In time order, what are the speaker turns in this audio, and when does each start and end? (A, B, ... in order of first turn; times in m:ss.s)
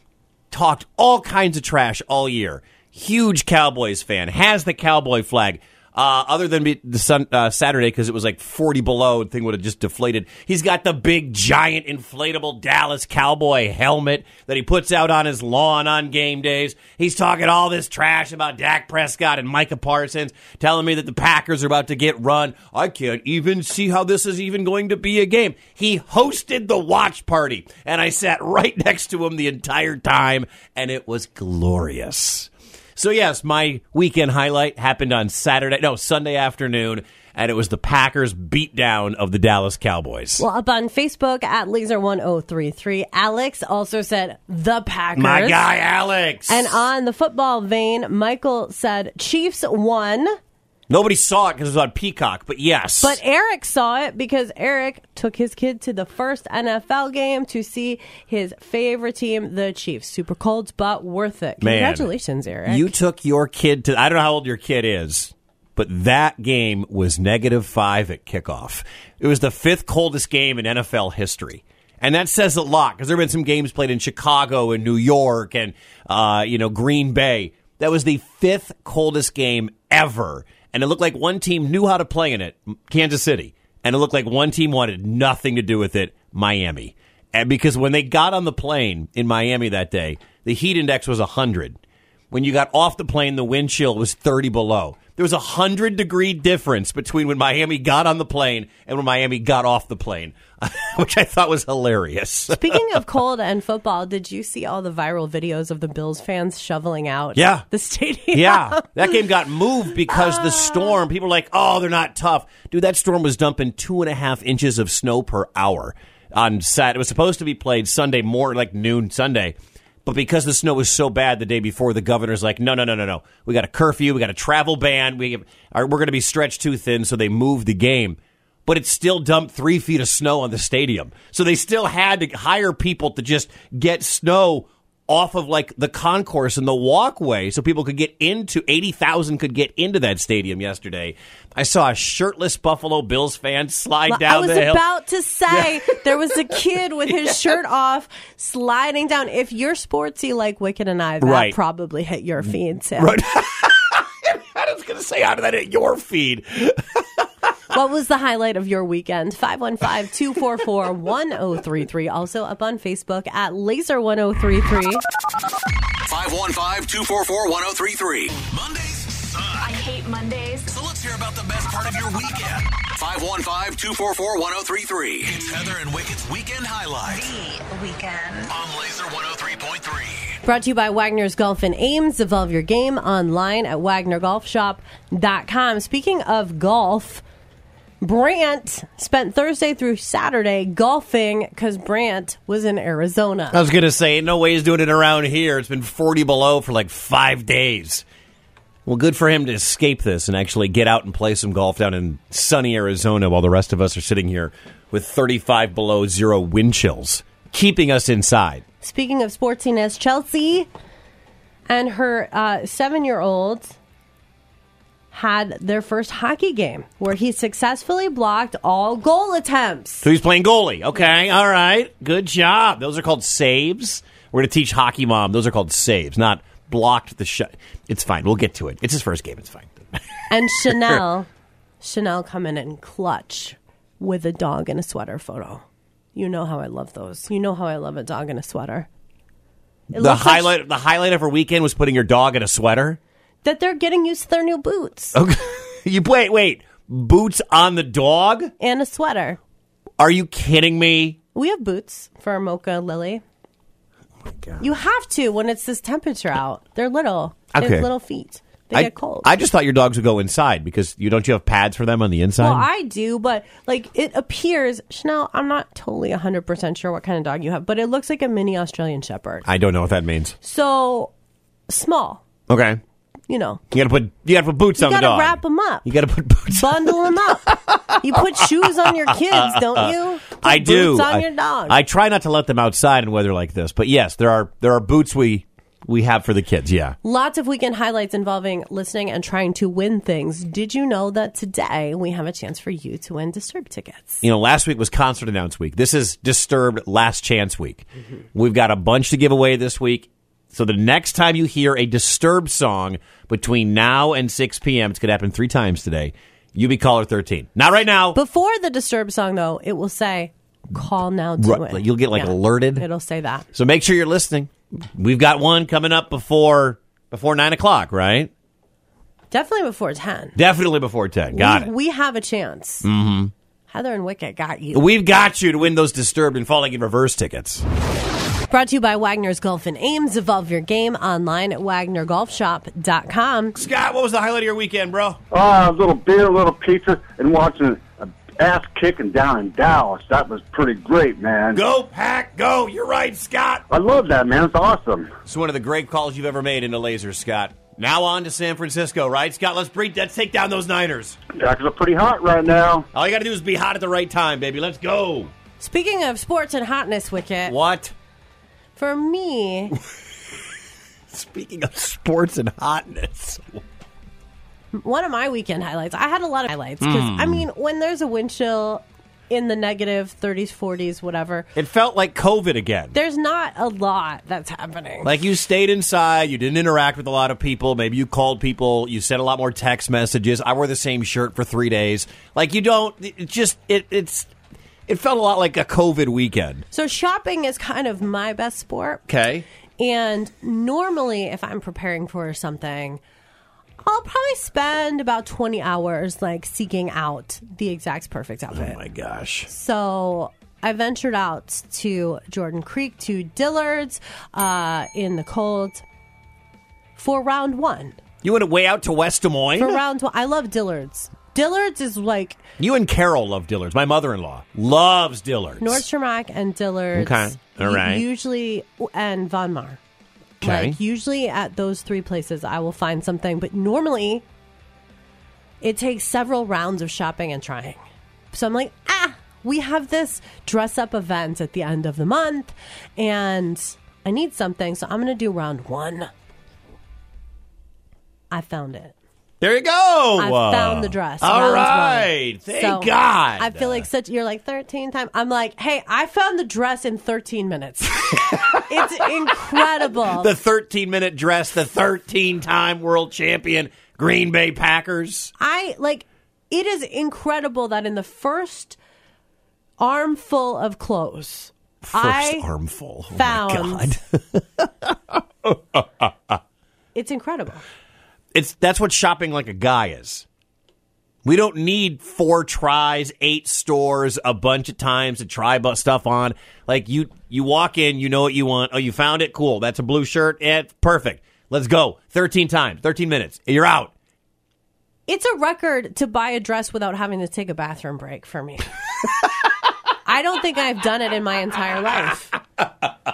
0:00.5-0:40.4 A
0:40.4-0:45.6 B
0:45.2-0:46.8 A
0:46.5-0:50.4 B
0:50.9-0:53.2 A
0:53.0-1:03.0 B
1:01.6-1:02.1 A
1:02.6-1:31.8 A
1:32.3-1:43.0 A
1:42.5-1:49.1 B
1:47.3-1:47.7 A
1:48.3-2:24.8 A
1:50.1-1:50.8 B
2:24.1-2:33.2 B
2:25.5-2:27.6 A
2:31.2-2:31.6 A
2:33.0-2:37.2 A
2:37.7-2:45.0 B
2:46.0-2:49.8 C
2:49.6-2:50.7 D
2:50.6-2:57.4 C
2:57.0-2:58.5 D
2:58.5-3:00.3 C
3:00.4-3:07.2 B
3:08.0-3:13.6 B
3:13.5-3:18.0 A
3:18.8-3:28.6 A
3:28.8-3:30.7 B
3:31.7-3:33.7 B
3:35.1-3:40.1 B
3:40.0-3:51.0 A
3:50.3-3:51.3 B
3:51.8-3:55.6 B
3:56.1-3:58.9 B
3:59.9-4:00.6 B
3:59.9-4:03.0 A
4:03.4-4:05.2 B
4:05.1-4:08.5 A
4:08.6-4:09.4 B
4:10.0-4:11.2 A
4:11.3-4:13.2 B
4:14.2-4:14.6 A
4:14.6-4:19.3 B
4:17.5-4:17.9 A
4:18.7-4:22.7 A
4:22.4-4:29.4 B
4:29.4-4:30.4 A
4:30.4-4:31.1 B
4:31.7-4:32.2 B
4:32.5-4:32.8 A
4:33.3-4:33.6 B
4:33.7-4:47.0 A
4:34.8-4:35.9 B
4:36.5-4:41.8 B
4:47.0-4:54.2 B
4:54.2-5:08.2 A
5:08.1-5:13.4 B
5:11.4-5:12.8 A
5:13.5-5:18.3 A
5:19.3-5:20.4 B
5:20.4-5:21.7 A
5:21.3-5:22.9 B
5:22.8-5:23.3 A
5:23.7-5:24.8 B
5:24.7-5:27.6 A
5:28.5-5:33.6 B
5:33.6-5:35.2 A
5:35.3-5:41.6 E
5:41.5-5:43.6 A
5:43.7-5:45.1 E
5:45.2-5:51.2 A
5:51.3-5:52.9 E
5:52.9-5:55.3 A
5:55.6-5:57.5 B
5:57.4-5:57.9 A
5:58.8-5:59.8 B
6:01.1-6:03.6 A
6:04.7-6:11.5 B
6:06.8-6:07.4 A
6:11.5-6:13.0 A
6:12.9-6:15.2 B
6:15.0-6:24.3 A
6:24.9-6:26.6 A
6:26.7-6:29.0 B
6:29.1-6:29.4 A
6:29.8-6:33.0 B
6:33.8-6:38.8 B
6:38.5-6:39.5 A
6:39.5-6:45.8 B
6:47.0-6:48.0 B
6:48.2-6:49.8 A
6:49.6-6:52.4 B
6:52.6-6:55.8 A
6:55.6-6:59.8 B
6:56.9-6:58.0 A
7:00.4-7:00.8 A
7:00.4-7:04.2 B
7:05.6-7:07.8 B
7:08.3-7:16.1 B
7:18.3-7:19.0 B
7:19.4-7:23.9 A
7:20.2-7:30.3 B
7:28.1-7:28.9 A
7:29.5-7:35.3 A
7:35.4-7:38.8 B
7:39.8-7:42.5 B
7:41.8-7:46.4 A
7:43.1-7:43.9 B
7:46.9-7:47.6 B
7:48.3-7:50.2 A
7:51.2-8:03.9 A
8:05.1-8:08.7 B
8:10.0-8:12.3 B
8:12.6-8:12.9 A